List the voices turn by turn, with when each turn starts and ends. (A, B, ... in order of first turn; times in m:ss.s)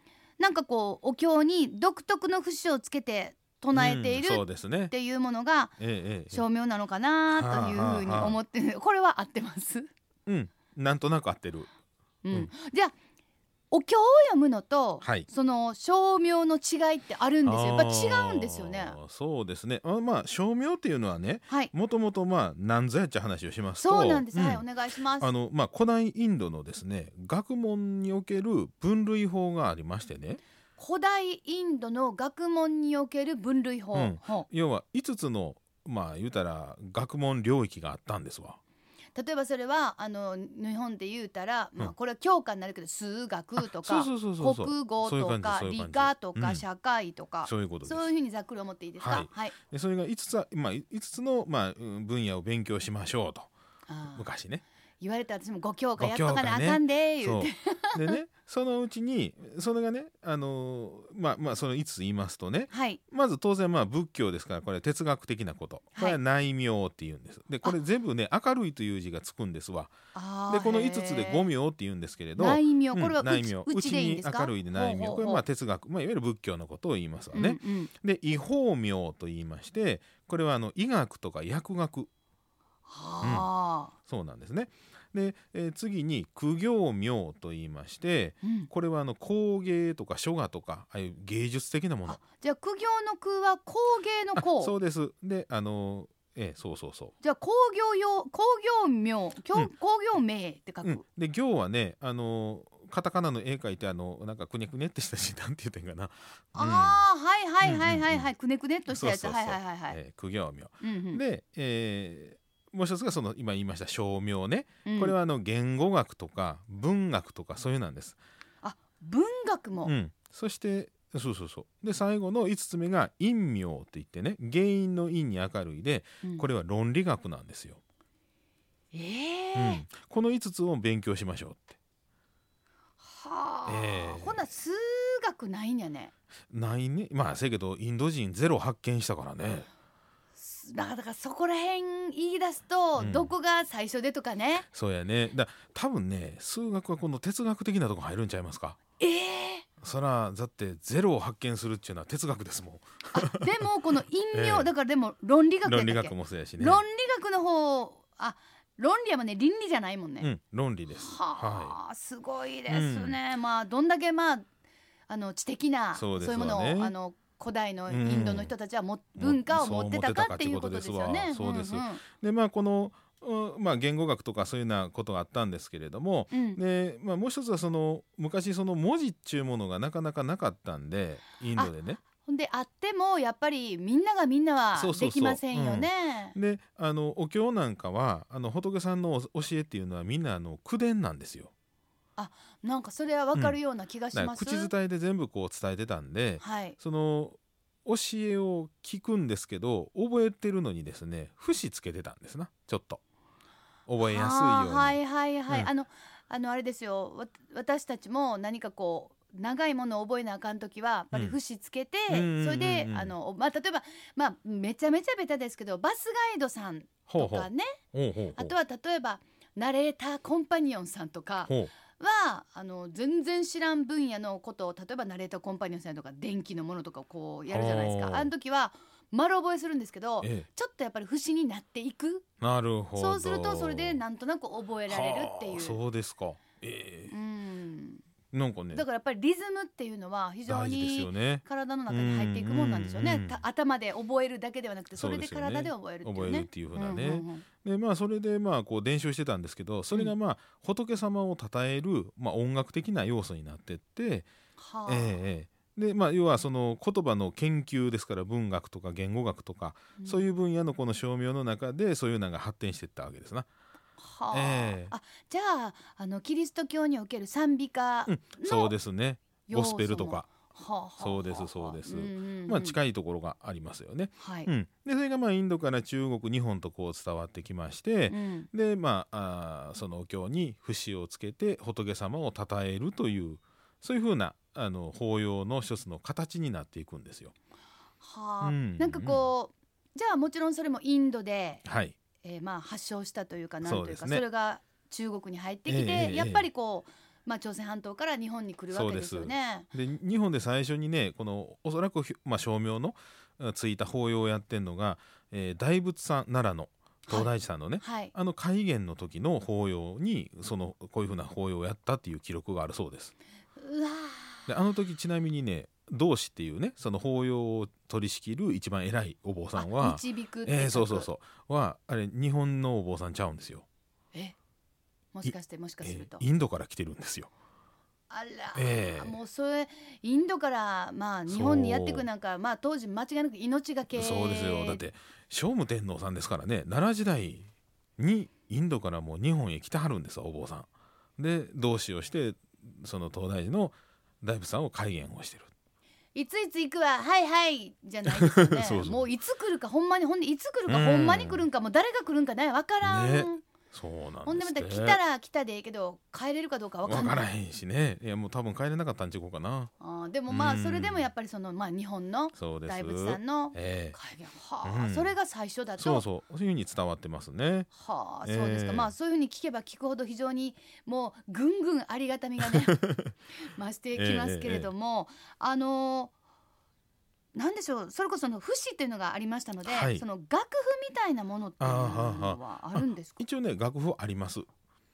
0:00.4-0:05.8 A
0:03.7-0:04.9 B
0:05.8-0:06.4 B
0:06.3-0:09.9 A
0:07.3-0:08.4 B
0:10.2-0:11.7 B
0:12.2-0:12.9 A
0:13.7-0:19.0 A
0:15.0-0:15.3 B
0:17.4-0:24.6 B
0:23.8-0:25.3 A
0:25.2-0:30.4 B
0:30.8-0:34.5 A
0:33.9-0:38.6 B
0:39.1-0:49.6 A
0:43.6-0:46.6 B
0:47.4-0:48.1 B
0:49.0-0:53.5 B
0:53.9-0:54.3 A
0:54.1-0:54.6 B
0:55.0-0:58.2 A
0:56.0-1:10.0 B
1:02.7-1:03.0 A
1:10.1-1:11.5 A
1:10.5-1:22.1 B
1:12.4-1:15.4 A
1:17.3-1:17.9 A
1:22.9-1:23.9 A
1:23.2-1:23.5 B
1:24.0-1:32.2 B
1:28.4-1:28.7 A
1:32.0-1:34.7 A
1:34.3-1:37.1 B
1:37.2-1:41.0 A
1:40.8-1:47.0 B
1:46.5-1:50.0 A
1:47.6-1:48.3 B
1:48.9-1:58.2 B
1:50.8-1:51.2 A
1:54.8-1:55.2 A
1:58.6-1:59.9 A
1:59.8-2:07.8 B
2:08.9-2:09.8 A
2:09.5-2:11.8 B
2:13.0-2:16.1 A
2:13.6-2:14.4 B
2:16.5-2:19.7 B
2:20.4-2:24.7 A
2:23.0-2:23.3 B
2:24.7-2:28.8 B
2:29.0-2:29.6 A
2:29.8-2:33.6 B
2:33.1-2:40.3 A
2:34.3-2:34.7 B
2:35.6-2:36.8 B
2:40.2-2:41.8 B
2:40.9-2:44.4 A
2:42.7-2:43.2 B
2:45.1-2:52.0 A
2:45.9-2:46.9 B
2:47.9-2:48.5 B
2:49.2-3:02.0 B
2:56.3-2:56.6 A
3:01.5-3:06.3 A
3:04.7-3:11.5 B
3:12.2-3:14.7 A
3:14.1-3:23.0 B
3:16.4-3:16.8 A
3:23.9-3:25.7 B
3:24.0-3:37.8 A
3:31.1-3:31.4 B
3:32.1-3:33.1 B
3:37.1-3:38.5 B
3:38.4-3:52.2 A
3:41.5-3:41.7 B
3:47.5-3:48.3 B
3:50.2-3:50.4 B
3:52.4-3:54.0 B
3:53.0-3:55.8 A
3:54.9-3:57.1 B
3:57.1-3:58.0 A
3:58.3-3:58.8 B
3:58.7-4:07.4 A
4:00.4-4:03.4 B
4:05.0-4:14.3 B
4:14.6-4:15.2 A
4:14.8-4:23.5 B
4:20.0-4:20.3 A
4:24.0-4:28.8 A
4:24.3-4:24.9 B
4:28.1-4:30.4 B
4:29.5-4:32.8 A
4:31.0-4:47.3 B
4:34.2-4:34.5 A
4:38.1-4:38.5 A
4:48.0-4:51.6 A
4:48.4-4:49.3 B
4:51.6-4:52.0 B
4:52.2-4:59.7 A
4:53.6-4:54.2 B
4:55.7-4:56.4 B
4:58.7-5:13.1 B
5:07.1-5:08.1 A
5:13.6-5:14.5 A
5:14.5-5:23.6 B
5:19.6-5:21.1 A
5:25.1-5:26.2 A
5:25.2-5:27.3 B
5:28.1-5:34.8 A
5:28.5-5:29.2 B
5:31.3-5:32.0 B
5:34.0-5:45.5 B
5:46.1-5:53.4 A
5:48.1-5:49.1 B
5:50.7-5:51.4 B
5:52.8-5:55.0 B
5:54.2-5:57.2 A
5:56.8-5:59.7 B
5:59.8-6:06.0 A
6:00.3-6:01.1 B
6:02.3-6:04.0 B
6:04.6-6:05.1 B
6:05.8-6:07.7 B
6:07.7-6:12.8 A
6:08.2-6:08.9 B
6:12.7-6:13.1 B
6:13.4-6:16.1 A
6:14.0-6:14.7 B
6:17.3-6:23.2 A
6:19.6-6:20.0 B
6:21.6-6:24.5 B